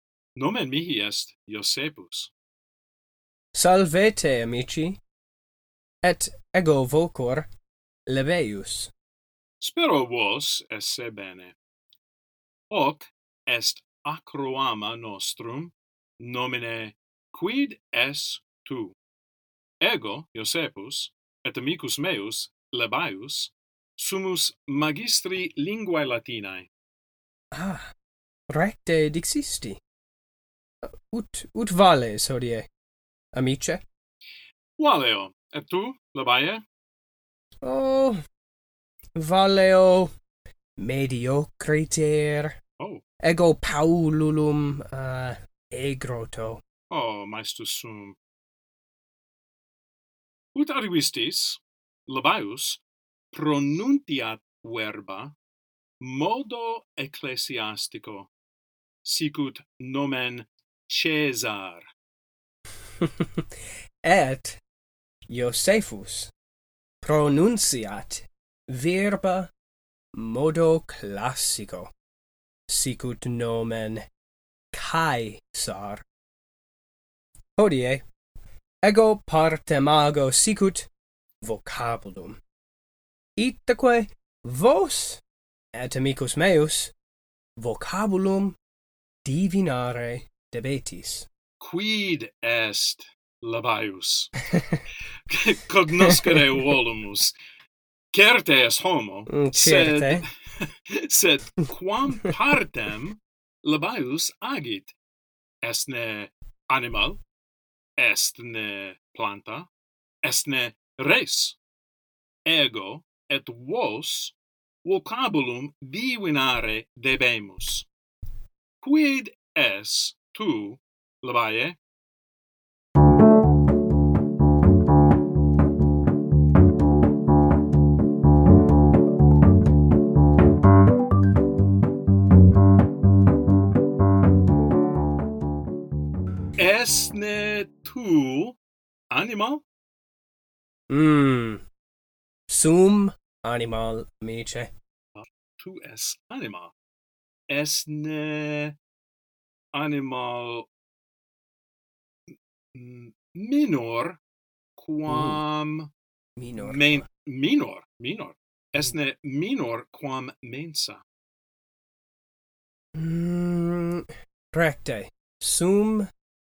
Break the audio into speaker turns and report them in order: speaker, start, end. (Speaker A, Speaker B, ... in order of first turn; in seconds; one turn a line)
Speaker A: 0.4-2.3
Speaker B: 3.5-5.0
Speaker B: 6.0-7.5
Speaker B: 8.1-8.9
Speaker A: 9.6-11.6
Speaker A: 12.7-18.9
Speaker A: 19.8-26.7
Speaker B: 27.5-27.9
Speaker B: 28.5-29.8
Speaker B: 30.8-32.7
Speaker B: 33.3-33.8
Speaker A: 34.8-36.6
Speaker B: 37.6-38.2
Speaker B: 39.2-40.1
Speaker B: 40.8-42.6
Speaker B: 43.2-46.6
Speaker A: 46.9-48.2
Speaker A: 50.5-55.3
Speaker A: 56.0-58.3
Speaker A: 59.0-61.9
Speaker B: 63.0-63.5
Speaker B: 64.0-64.6
Speaker B: 65.3-66.3
Speaker B: 67.0-69.5
Speaker B: 70.1-71.9
Speaker B: 72.7-74.0
Speaker B: 74.7-76.0
Speaker B: 77.6-78.0
Speaker B: 78.8-80.9
Speaker B: 81.4-82.4
Speaker B: 83.4-85.2
Speaker B: 85.7-86.9
Speaker B: 87.6-88.6
Speaker B: 89.2-91.3
Speaker A: 91.6-94.4
Speaker B: 94.5-94.8
Speaker A: 95.3-97.4
Speaker A: 98.1-104.9
Speaker B: 99.3-100.3
Speaker A: 105.6-107.2
Speaker A: 108.0-109.7
Speaker A: 110.2-111.6
Speaker A: 112.5-117.9
Speaker A: 118.8-121.8
Speaker A: 136.6-138.6
Speaker A: 139.1-139.6
Speaker B: 140.9-141.6
Speaker B: 142.5-144.7
Speaker A: 145.2-146.7
Speaker A: 147.5-148.8
Speaker A: 149.7-150.7
Speaker A: 152.7-154.2
Speaker A: 154.8-155.9
Speaker B: 155.1-155.4
Speaker B: 156.4-157.1
Speaker A: 156.6-161.0
Speaker B: 162.9-166.1